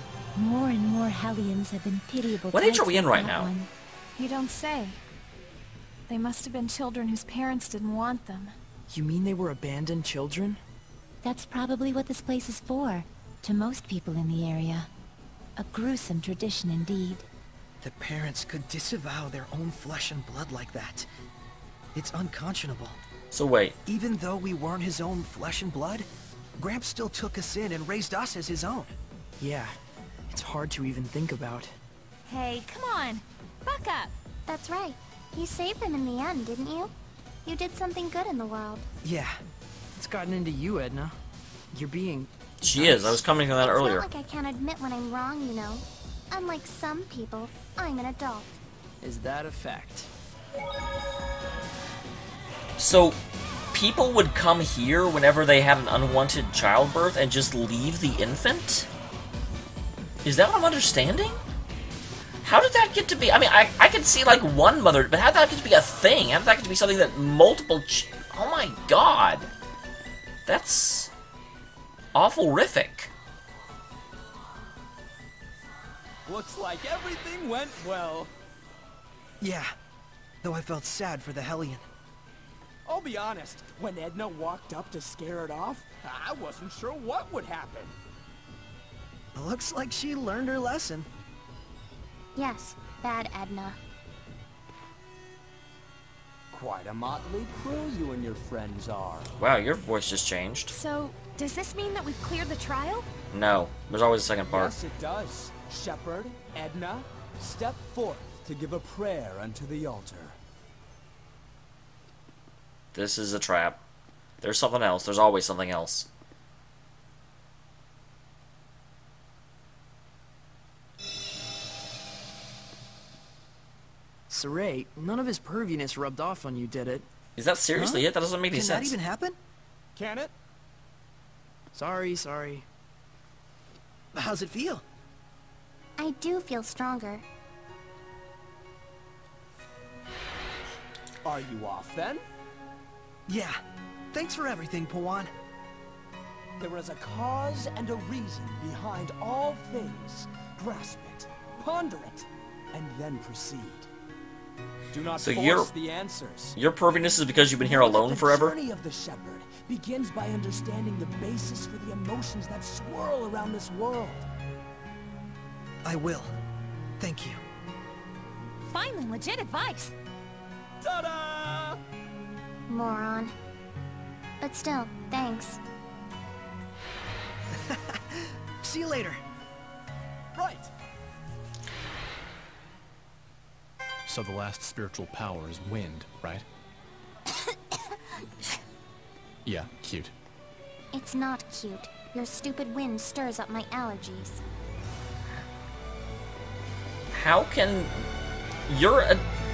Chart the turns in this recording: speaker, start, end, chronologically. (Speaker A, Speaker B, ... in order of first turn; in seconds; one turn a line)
Speaker A: 0.3-3.7
Speaker B: 2.5-3.5
Speaker C: 4.2-5.0
Speaker C: 6.1-8.5
Speaker D: 8.9-10.6
Speaker A: 11.2-14.9
Speaker A: 15.6-17.2
Speaker E: 17.8-21.1
Speaker E: 21.9-23.0
Speaker B: 23.3-23.8
Speaker E: 23.9-26.1
Speaker E: 26.6-28.9
Speaker D: 29.4-29.7
Speaker D: 30.3-31.7
Speaker C: 32.3-34.1
Speaker F: 34.5-36.9
Speaker F: 37.4-38.9
Speaker E: 39.0-39.3
Speaker D: 40.0-41.1
Speaker D: 41.7-43.1
Speaker B: 42.6-44.0
Speaker F: 43.6-48.6
Speaker D: 49.0-50.1
Speaker B: 52.8-53.2
Speaker B: 53.7-58.9
Speaker B: 60.2-61.4
Speaker B: 62.4-69.5
Speaker B: 70.5-71.1
Speaker B: 72.1-73.1
Speaker G: 76.2-78.3
Speaker E: 79.4-79.7
Speaker E: 80.4-81.8
Speaker G: 82.8-88.0
Speaker E: 89.3-91.1
Speaker F: 92.3-93.8
Speaker G: 96.5-99.3
Speaker B: 99.4-100.7
Speaker C: 100.7-103.0
Speaker B: 103.3-104.7
Speaker G: 104.5-110.4
Speaker B: 112.9-113.8
Speaker B: 114.4-116.1
Speaker D: 124.3-127.1
Speaker B: 127.4-128.9
Speaker E: 127.7-129.4
Speaker G: 129.9-130.3
Speaker D: 131.7-132.6
Speaker E: 134.1-134.8
Speaker F: 136.0-137.2
Speaker G: 141.2-142.2
Speaker E: 143.3-143.6
Speaker E: 144.1-145.3
Speaker G: 146.6-153.9
Speaker G: 154.9-156.6
Speaker B: 155.2-155.7
Speaker B: 156.5-158.6
Speaker G: 157.6-164.2
Speaker E: 165.8-166.3
Speaker E: 167.0-167.4
Speaker C: 168.7-169.9
Speaker G: 170.8-171.8
Speaker F: 172.7-173.3
Speaker F: 174.4-175.6
Speaker E: 177.5-179.2
Speaker G: 180.3-180.7
Speaker H: 184.1-186.4
Speaker H: 189.4-190.1
Speaker F: 190.9-194.4
Speaker B: 197.1-198.1
Speaker B: 198.7-199.2